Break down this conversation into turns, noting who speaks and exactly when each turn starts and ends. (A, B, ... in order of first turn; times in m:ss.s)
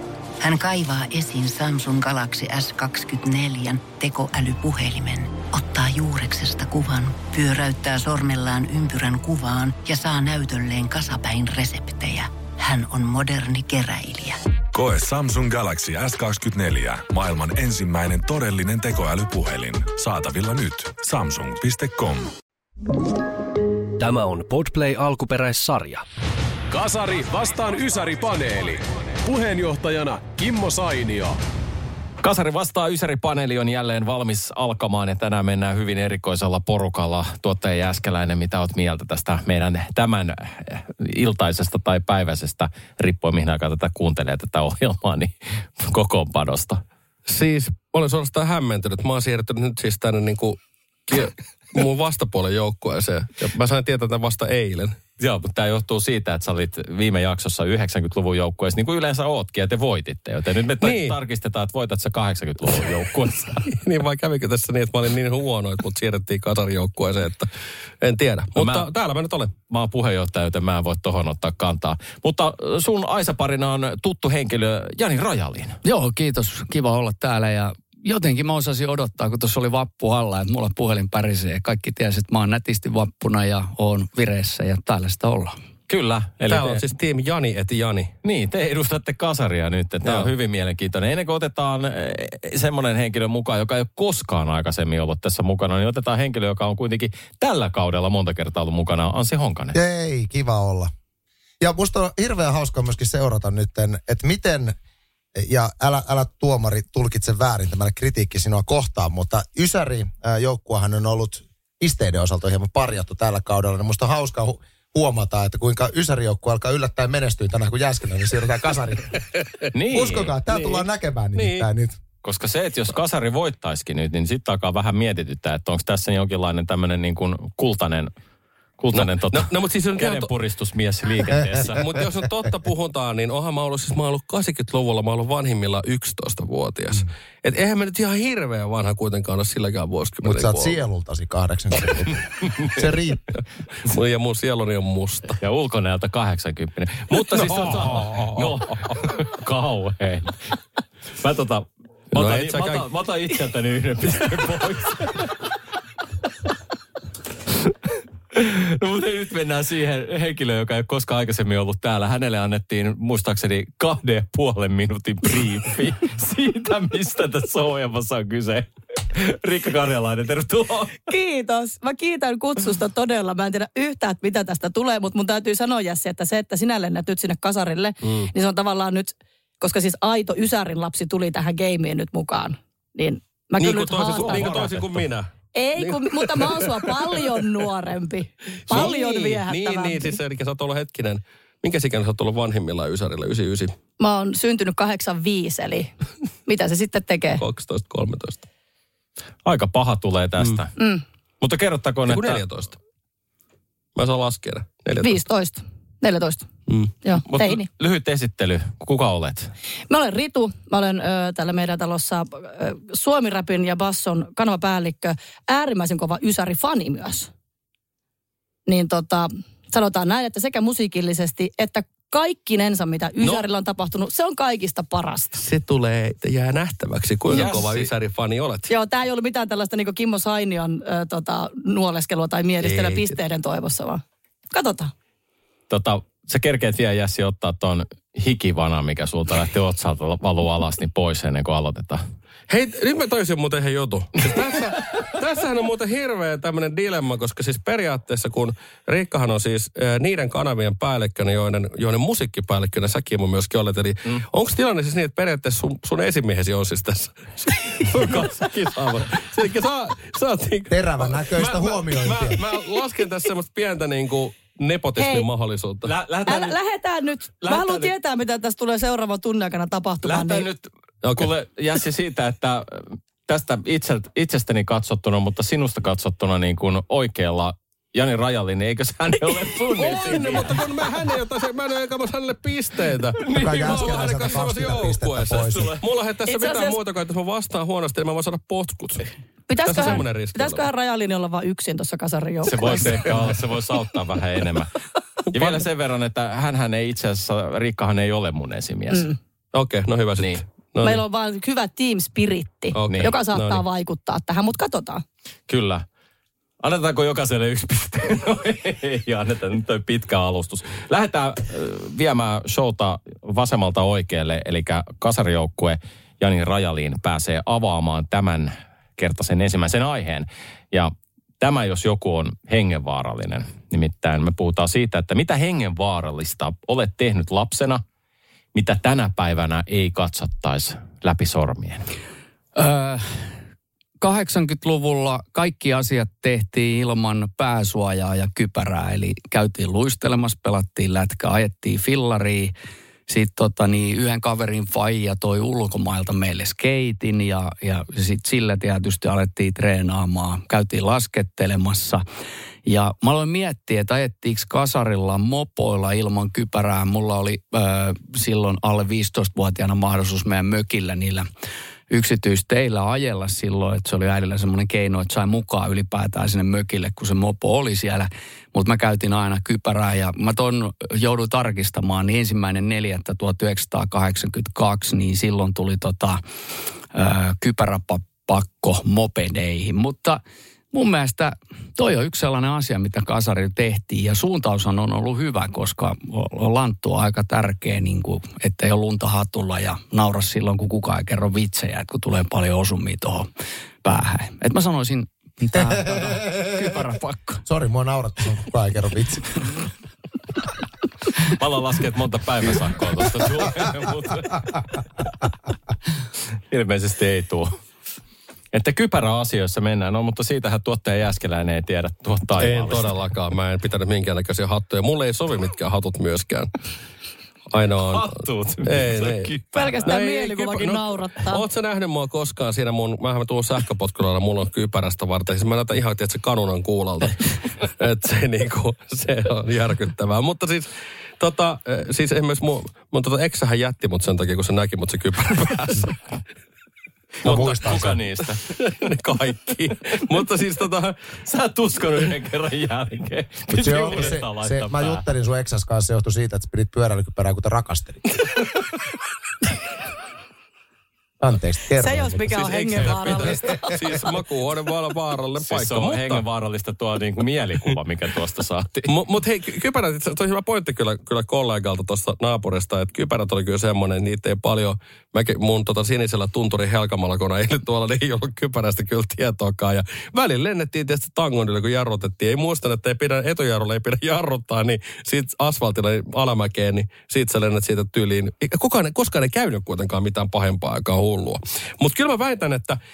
0:00.4-0:14.4 A
0:14.7-0:22.3 B
0:24.0-0:26.0 C
0:24.6-0:25.7 D
0:26.7-0:31.4 D
0:32.2-0:46.8 E
0:47.3-0:55.0 F
0:55.2-1:03.6 E
1:00.8-1:01.2 F
1:03.6-1:07.5 F
1:08.0-1:09.5 F
1:08.6-1:08.9 E
1:09.7-1:15.8 E
1:15.8-1:25.6 G
1:25.9-1:26.8 E
1:26.5-1:28.1 F
1:28.2-1:39.8 E
1:30.0-1:30.3 F
1:39.7-1:40.9 H
1:41.6-1:44.7 H
1:45.3-1:59.2 H
1:59.7-2:00.3 E
1:59.9-2:02.0 H
2:00.5-2:01.7 F
2:02.2-2:08.1 E
2:08.8-2:11.8 E
2:08.9-2:10.3 F
2:11.5-2:20.8 F
2:20.2-2:23.2 H
2:23.8-2:25.4 F
2:25.4-2:30.6 E
2:27.1-2:28.5 F
2:31.2-2:35.3 E
2:32.1-2:32.8 F
2:38.3-2:51.0 E
2:51.1-3:04.7 I
2:58.0-2:58.3 F
3:03.6-3:07.4 F
3:04.1-3:05.1 E
3:05.5-3:10.2 I
3:08.7-3:13.7 F
3:14.0-3:15.9 I
3:16.4-3:17.4 I
3:17.4-3:18.4 F
3:19.4-3:20.7 E
3:20.8-3:21.0 I
3:21.4-3:22.4 E
3:22.1-3:22.7 F
3:24.0-3:25.2 F
3:25.0-3:26.5 I
3:27.0-3:27.6 I
3:27.3-3:29.5 E
3:29.9-3:37.3 I
3:38.6-3:45.4 I
3:45.4-3:48.7 F
3:47.3-3:47.9 E
3:48.7-3:54.9 I
3:52.6-3:53.2 F
3:55.7-4:02.0 E
4:02.5-4:25.9 F
4:18.0-4:19.1 E
4:20.7-4:22.4 H
4:25.0-4:25.3 I
4:25.8-4:26.6 E
4:26.2-4:30.5 I
4:27.4-4:27.9 E
4:30.0-4:40.6 E
4:31.0-4:31.3 F
4:39.7-4:49.1 F
4:43.2-4:44.4 E
4:43.3-4:45.7 H
4:46.2-4:46.8 I
4:49.5-4:53.3 I
4:49.6-4:50.7 F
4:52.4-4:54.7 E
4:55.3-4:55.6 F
4:55.3-4:59.1 E
4:59.5-5:01.0 F
5:00.8-5:05.0 I
5:02.7-5:03.6 F
5:02.8-5:03.1 E
5:05.5-5:05.8 E
5:06.6-5:27.8 E
5:28.5-5:31.8 E
5:32.6-5:33.3 G
5:34.0-5:42.5 G
5:43.1-5:52.0 G
5:52.6-6:01.2 G
6:01.9-6:16.2 G
6:16.9-6:20.2 G
6:20.7-6:33.3 G
6:33.8-6:37.4 G
6:36.0-6:36.8 H
6:37.4-6:39.4 H
6:41.4-6:44.4 E
6:46.5-6:47.5 E
6:48.5-6:52.9 E
6:52.4-6:56.5 F
6:57.5-6:59.3 F
6:57.8-6:59.9 E
6:59.5-7:01.4 I
6:59.8-7:16.0 F
7:17.2-7:18.4 E
7:17.2-7:17.9 H
7:17.3-7:17.9 F
7:18.5-7:21.0 F
7:21.2-7:25.0 E
7:23.5-7:28.0 H
7:31.2-7:33.7 H
7:31.8-7:34.1 I
7:32.3-7:36.2 F
7:35.4-7:38.9 E
7:38.9-8:02.8 F